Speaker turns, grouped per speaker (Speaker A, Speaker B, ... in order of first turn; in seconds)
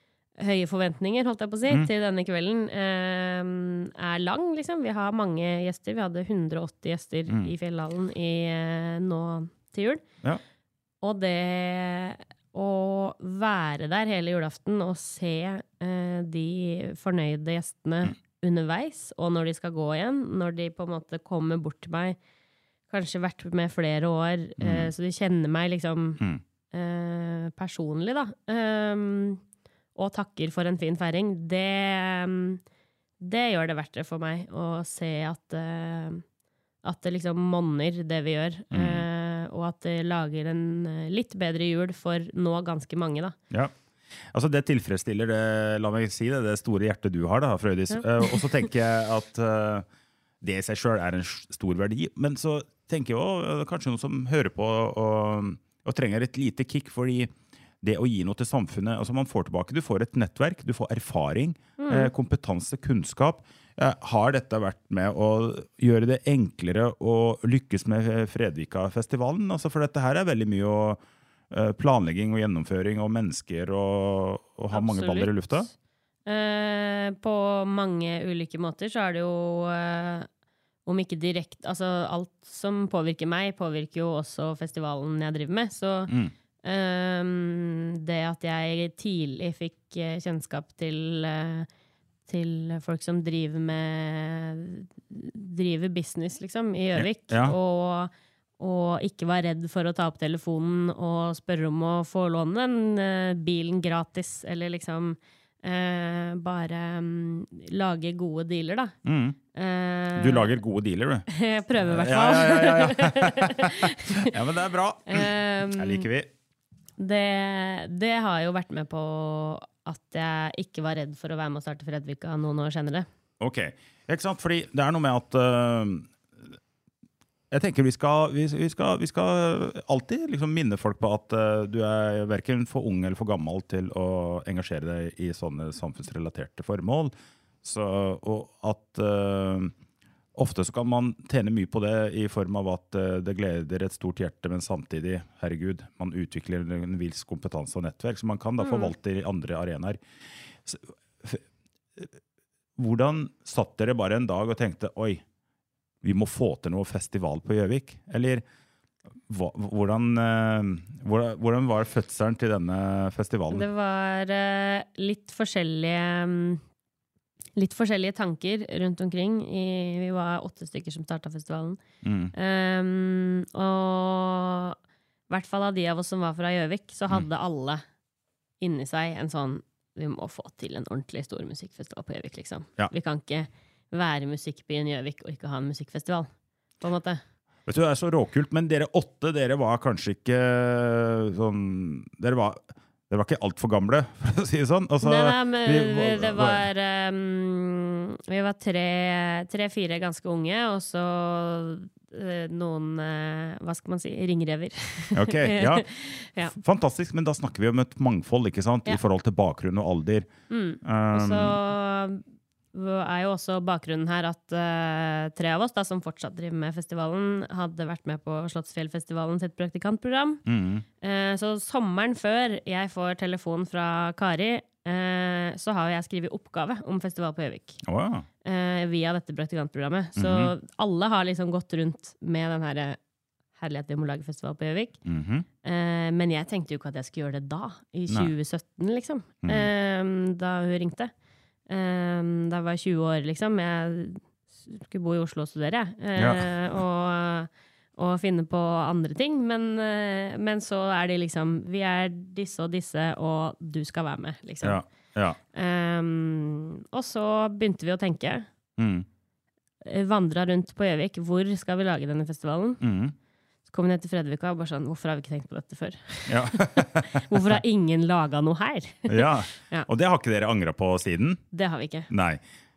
Speaker A: 0.4-10.0, 11.0-22.2, 22.9-29.4, 29.9-32.6, 33.2-36.2, 36.8-43.4, 47.9-48.4, 61.8-62.1, 74.7-75.7, 76.2-80.3, 80.8-86.1, 86.6-91.7, 92.3-109.0, 109.5-110.5, 111.3-114.3, 115.1-116.1, 117.0-123.1, 148.6-148.9, 163.5-166.6, 167.6-171.8, 172.3-174.8, 175.3-177.8, 178.6-186.3, 186.8-187.2, 195.0-206.5, 210.5-212.2, 212.7-220.4, 221.0-227.8, 228.4-233.0, 233.6-235.0, 235.6-241.1, 241.7-254.8, 255.5-258.5, 259.8-262.8, 263.7-269.9, 271.5-272.1
Speaker B: 24.6-24.9, 38.7-39.0, 44.3-49.9, 50.4-75.7, 97.0-97.6, 109.0-109.4, 110.2-111.3, 111.8-116.3, 123.4-126.5, 127.5-139.7, 140.3-150.0, 150.6-151.4, 152.8-155.2, 156.0-158.4, 159.3-163.7, 172.0-172.3, 187.7-196.7, 205.1-205.9, 206.5-210.3, 210.8-211.6, 220.5-220.8, 227.8-228.2, 230.2-230.5, 235.1-235.5, 239.4-239.7, 246.2-246.5, 254.6-255.4, 258.8-259.1, 262.8-263.1, 266.3-267.5, 269.1-271.4, 272.1-272.4